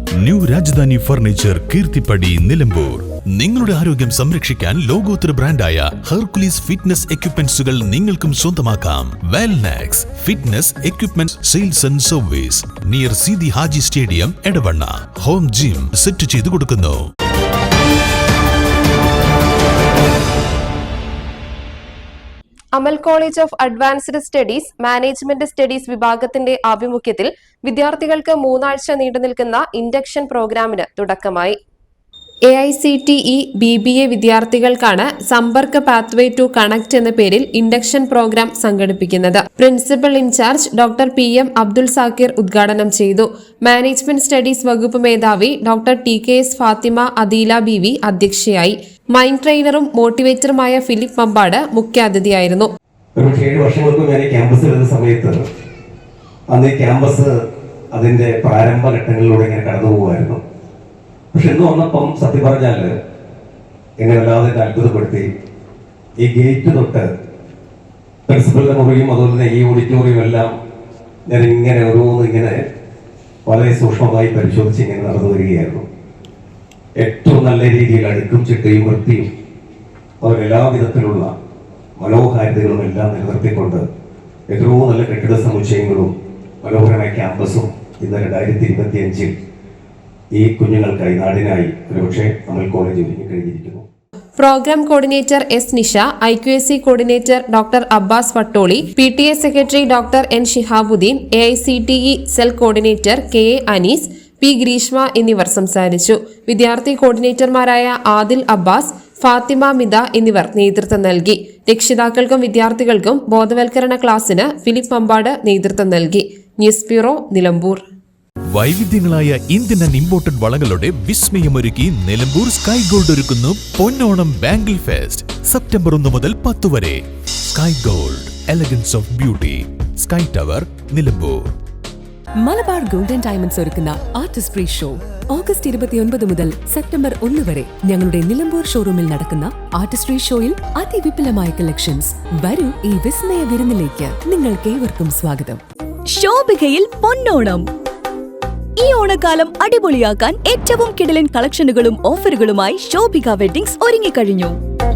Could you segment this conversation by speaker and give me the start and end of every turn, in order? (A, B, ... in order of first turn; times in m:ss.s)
0:00.2-0:17.0 A
0:22.8-0:31.6 B
0:32.5-0:52.7 B
0:53.2-0:55.4 C
0:56.5-0:57.4 C
0:57.9-1:00.4 C
1:01.3-1:03.0 C
1:04.0-1:05.3 C
1:06.2-1:07.1 C
1:08.3-1:10.5 C
1:11.3-1:12.6 C
1:13.4-1:15.8 C
1:17.0-1:19.3 C
1:20.2-1:21.3 C
1:22.0-1:23.9 C
1:24.5-1:29.4 C
1:30.3-1:33.8 C
1:34.4-1:57.8 B
1:58.5-2:11.5 A
2:12.4-2:25.6 D
2:26.1-2:27.6 E
2:28.8-2:34.5 E